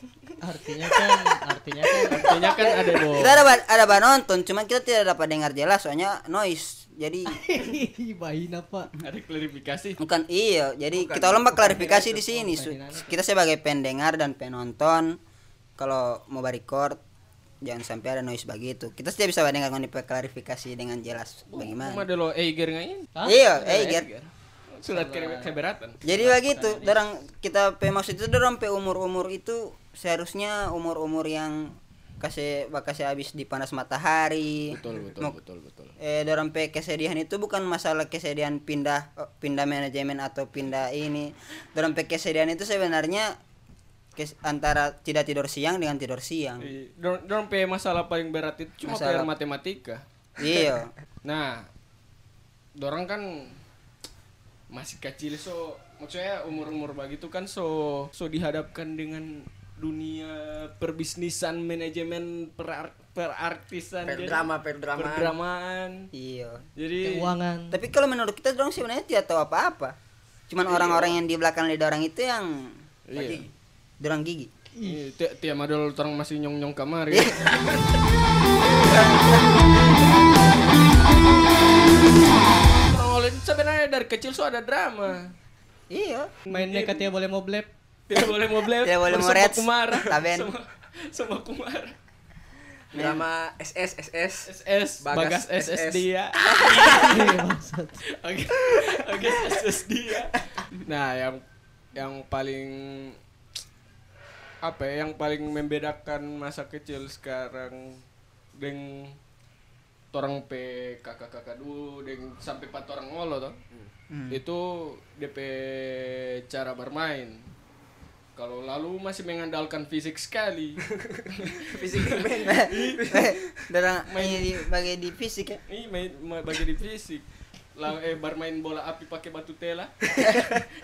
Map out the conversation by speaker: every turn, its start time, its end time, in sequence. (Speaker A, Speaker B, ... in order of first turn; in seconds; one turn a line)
Speaker A: 0.4-2.2
Speaker B: 0.9-1.2
Speaker B: 2.0-7.4
Speaker C: 2.1-3.4
Speaker A: 7.3-8.9
Speaker C: 9.0-10.0
Speaker B: 10.0-15.2
Speaker D: 10.9-11.9
Speaker A: 11.8-13.2
Speaker B: 15.8-17.0
Speaker B: 17.6-22.0
Speaker C: 21.5-26.0
Speaker B: 23.3-24.1
Speaker D: 24.9-25.5
Speaker B: 26.0-35.4
Speaker A: 26.1-27.1
Speaker C: 34.7-35.9
Speaker B: 36.0-43.3
Speaker B: 44.2-46.7
Speaker C: 46.6-50.0
Speaker B: 48.8-49.3
Speaker B: 50.4-50.9
Speaker C: 51.2-51.7
Speaker C: 52.8-53.6
Speaker C: 54.7-66.1
Speaker D: 64.0-65.3
Speaker B: 66.1-66.6
Speaker C: 66.8-67.3
Speaker A: 67.0-67.8
Speaker B: 67.7-70.0
Speaker B: 70.5-72.8
Speaker C: 70.7-71.2
Speaker C: 73.1-73.5
Speaker D: 73.1-73.5
Speaker B: 74.0-74.5
Speaker A: 74.8-75.0
Speaker C: 74.8-78.0
Speaker C: 78.6-82.0
Speaker B: 78.8-79.5
Speaker C: 82.8-85.4
Speaker B: 85.9-86.3
Speaker C: 86.5-87.0
Speaker A: 86.5-87.7
Speaker C: 88.1-92.0
Speaker B: 88.8-90.5
Speaker D: 92.9-94.5
Speaker B: 92.9-93.2
Speaker C: 94.5-97.4
Speaker D: 95.0-96.1
Speaker D: 96.6-97.2
Speaker A: 97.0-98.0
Speaker C: 98.1-101.4
Speaker C: 102.0-103.2
Speaker C: 104.6-108.0
Speaker C: 108.5-109.2
Speaker C: 110.1-113.6
Speaker B: 114.1-114.4
Speaker C: 114.3-117.5
Speaker C: 118.4-123.0
Speaker D: 120.9-123.7
Speaker B: 122.5-125.6
Speaker C: 124.1-124.6
Speaker C: 125.7-130.6